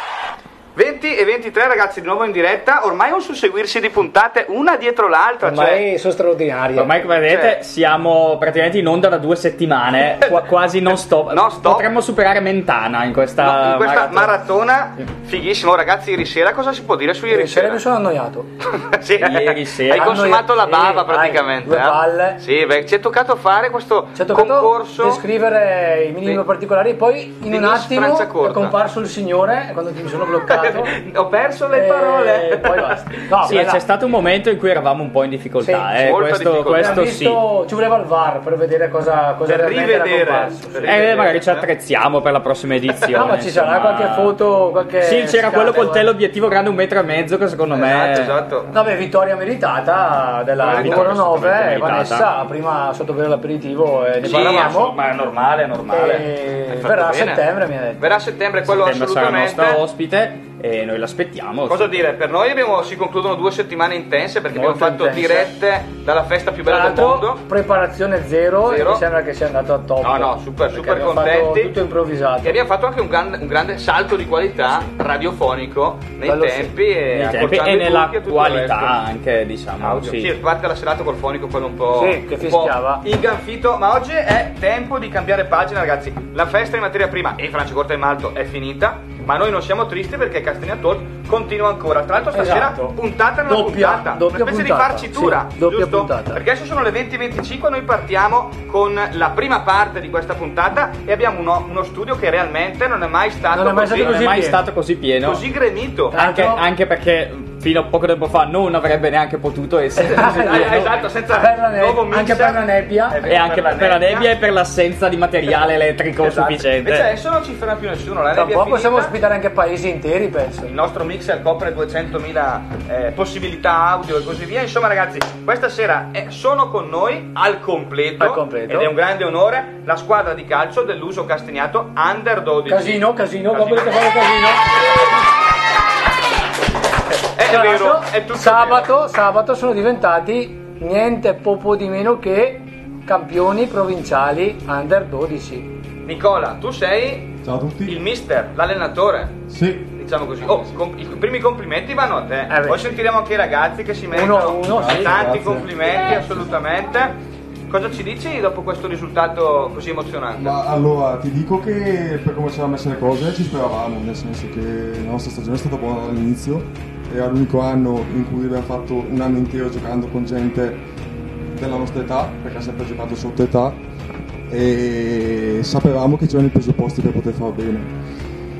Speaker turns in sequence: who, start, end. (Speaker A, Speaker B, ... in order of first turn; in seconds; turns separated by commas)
Speaker A: 0.8-5.9, Speaker B: 5.4-7.1, Speaker C: 6.8-14.3, Speaker A: 7.3-7.6, Speaker A: 10.2-11.9, Speaker A: 13.4-17.8, Speaker B: 17.3-18.5, Speaker A: 18.8-25.2, Speaker C: 19.2-20.2, Speaker B: 19.9-22.4, Speaker B: 24.1-31.0, Speaker A: 27.4-28.8, Speaker A: 30.4-33.2, Speaker B: 31.7-33.8, Speaker C: 33.4-37.4, Speaker B: 35.6-35.9, Speaker A: 36.0-37.1, Speaker B: 36.7-41.0, Speaker A: 39.4-41.7, Speaker C: 40.9-44.4, Speaker B: 43.1-46.1, Speaker C: 45.0-48.3, Speaker A: 47.7-48.7, Speaker B: 48.7-55.0, Speaker A: 50.6-51.5, Speaker C: 50.7-52.3, Speaker A: 54.2-57.5, Speaker C: 54.2-54.8, Speaker B: 55.9-58.0, Speaker A: 58.0-59.8, Speaker C: 58.6-62.0, Speaker A: 61.7-67.4, Speaker B: 64.5-65.5, Speaker B: 66.7-72.6, Speaker A: 68.6-69.0, Speaker A: 70.0-71.7, Speaker A: 72.4-79.0, Speaker B: 76.2-76.7, Speaker C: 77.1-80.3, Speaker A: 79.8-104.3, Speaker B: 81.9-83.0, Speaker B: 92.3-92.9, Speaker B: 93.5-96.4, Speaker B: 103.5-104.6, Speaker C: 103.9-105.4, Speaker A: 105.2-106.2, Speaker B: 106.1-106.6, Speaker C: 106.1-110.8, Speaker B: 110.0-113.2, Speaker A: 110.1-114.3, Speaker C: 113.2-117.1, Speaker A: 116.2-119.1, Speaker B: 118.3-120.7, Speaker A: 120.6-134.2, Speaker B: 128.2-128.9, Speaker B: 132.7-134.8, Speaker A: 137.3-138.9, Speaker B: 137.4-145.7, Speaker A: 146.1-147.3, Speaker D: 147.4-148.0, Speaker A: 147.8-157.2, Speaker D: 149.5-149.9, Speaker B: 152.5-153.0, Speaker B: 154.1-155.2, Speaker D: 154.6-155.7, Speaker A: 157.7-160.6, Speaker D: 160.4-170.8, Speaker D: 171.5-173.8, Speaker D: 174.5-177.9